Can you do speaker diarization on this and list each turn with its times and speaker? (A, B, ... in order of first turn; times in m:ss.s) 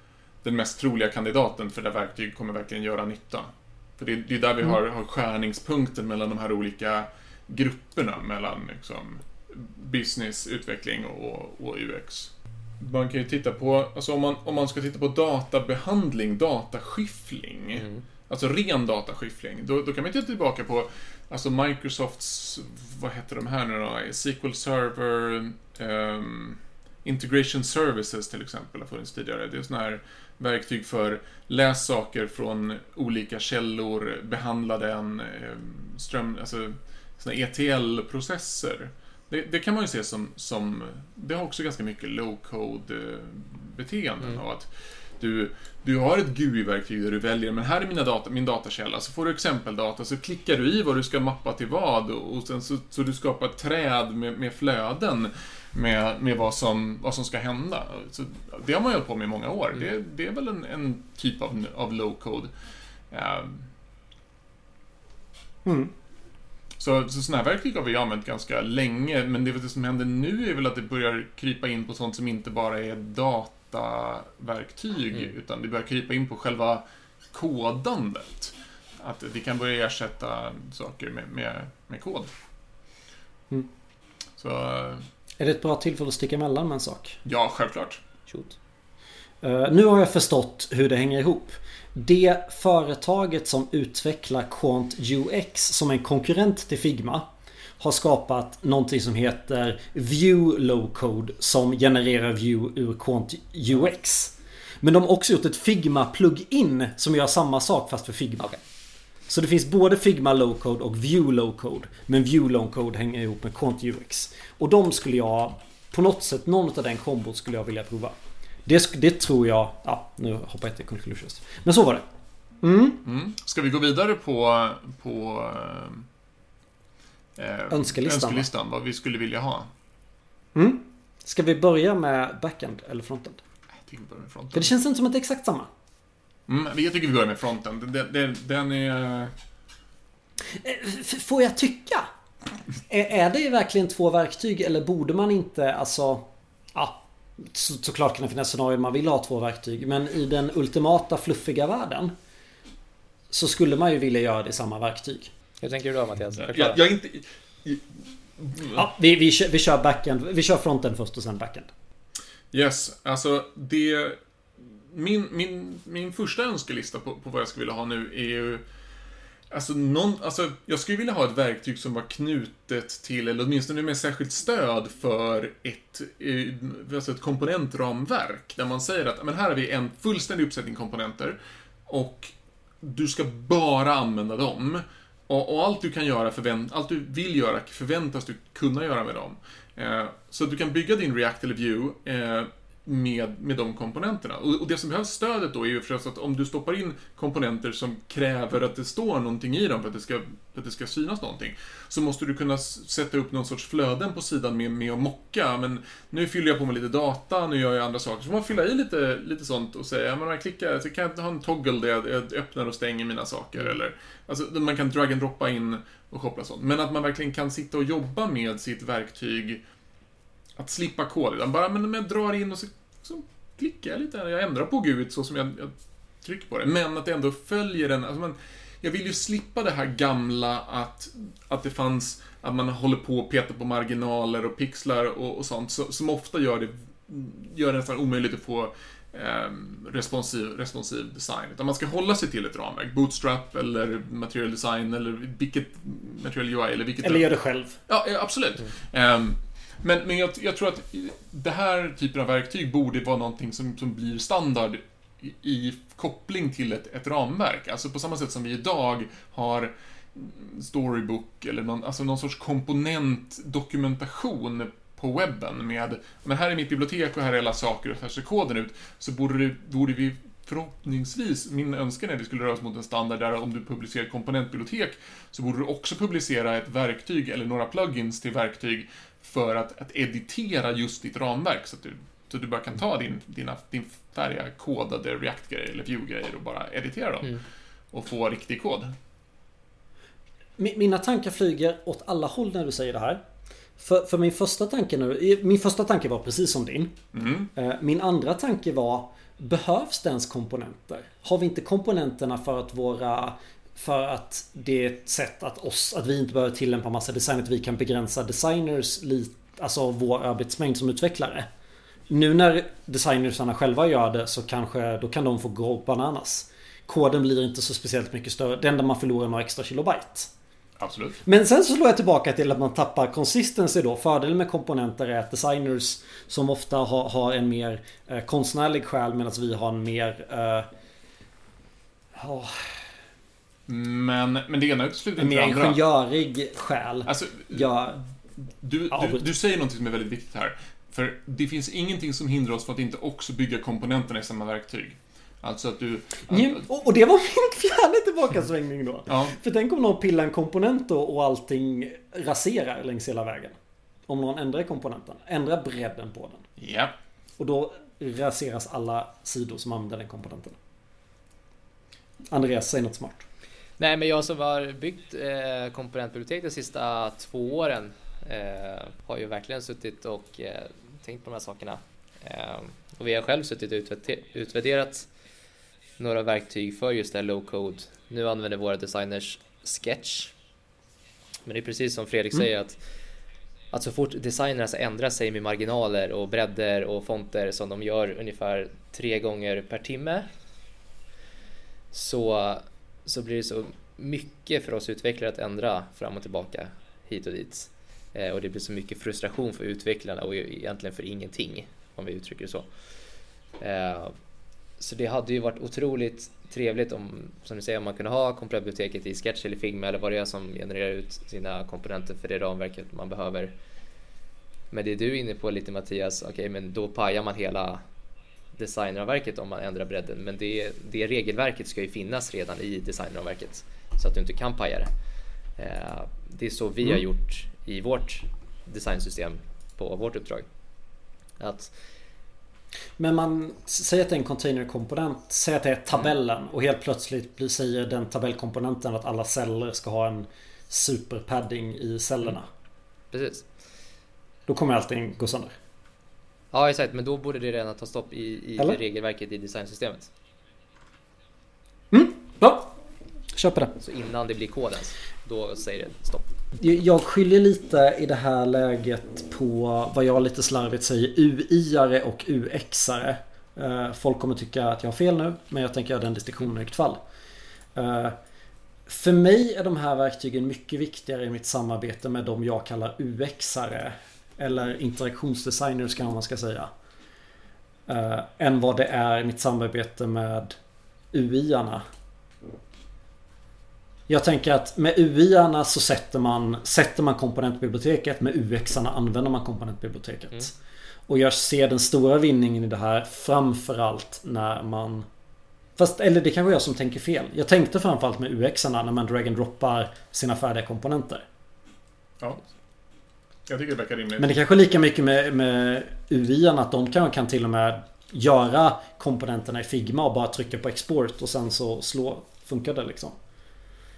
0:00.4-0:44.7 A
0:17.8-0:18.0 B
0:45.2-1:02.5 A
1:03.1-1:03.7 A
1:05.6-1:05.9 C
1:06.8-1:22.3 A
1:24.4-1:25.1 A
1:25.4-1:27.2 C
1:27.2-1:28.0 A
1:28.3-1:28.6 B
1:29.4-1:37.3 C
1:37.8-1:48.5 C
1:49.3-1:58.2 C
1:58.7-2:02.1 C
2:02.6-2:03.0 C
2:03.0-2:06.1 A
2:07.4-2:09.7 A
2:07.7-2:08.5 C
2:10.6-2:13.4 C
2:13.8-2:14.7 A
2:14.5-2:15.7 C
2:16.5-2:19.3 A
2:20.5-2:22.1 C
2:22.9-2:32.1 C
2:33.3-2:35.3 C
2:35.6-2:36.8 B
2:36.4-2:38.8 A
2:38.7-2:41.7 C
2:42.5-2:48.6 A
2:49.5-3:39.6 A
3:40.6-4:07.3 A
4:07.0-4:07.8 C
4:07.9-4:47.4 A
4:47.9-4:48.9 A
4:50.6-4:53.2 C
4:53.8-4:57.0 C
4:57.1-4:57.5 A
4:57.6-5:11.5 C
5:12.1-5:20.3 C
5:20.8-5:21.2 A
5:21.2-5:30.7 C
5:32.2-5:32.8 C
5:33.7-5:35.8 A
5:35.2-5:38.0 C
5:37.1-5:37.9 A
5:38.6-5:46.7 A
5:38.9-5:39.2 C
5:46.3-5:53.6 C
5:49.1-5:49.4 A
5:54.1-5:56.5 C
5:56.6-5:56.9 A
5:57.4-6:00.6 C
6:02.3-6:03.2 C
6:03.8-6:15.1 B
6:16.0-6:20.3 B
6:21.4-6:22.8 B
6:23.7-6:30.3 B
6:31.9-6:42.7 B
6:43.6-6:44.2 B
6:44.8-6:53.5 B
6:54.7-6:57.8 B
6:58.6-7:04.9 B
7:05.6-7:10.5 B
7:11.4-7:11.7 B
7:13.0-7:22.5 C
7:23.1-7:23.5 B
7:24.5-7:25.6 C
7:26.5-7:30.1 B
7:31.9-7:32.8 C
7:33.3-7:33.8 C
7:33.8-7:36.3 B
7:36.6-7:47.0 C
7:47.8-7:48.2 C
7:48.9-7:56.7 C
7:57.9-8:00.6 C
8:01.1-8:01.8 C
8:04.1-8:10.5 C
8:11.1-8:15.1 C
8:15.8-8:21.2 C
8:23.5-8:24.3 A
8:24.2-8:33.2 C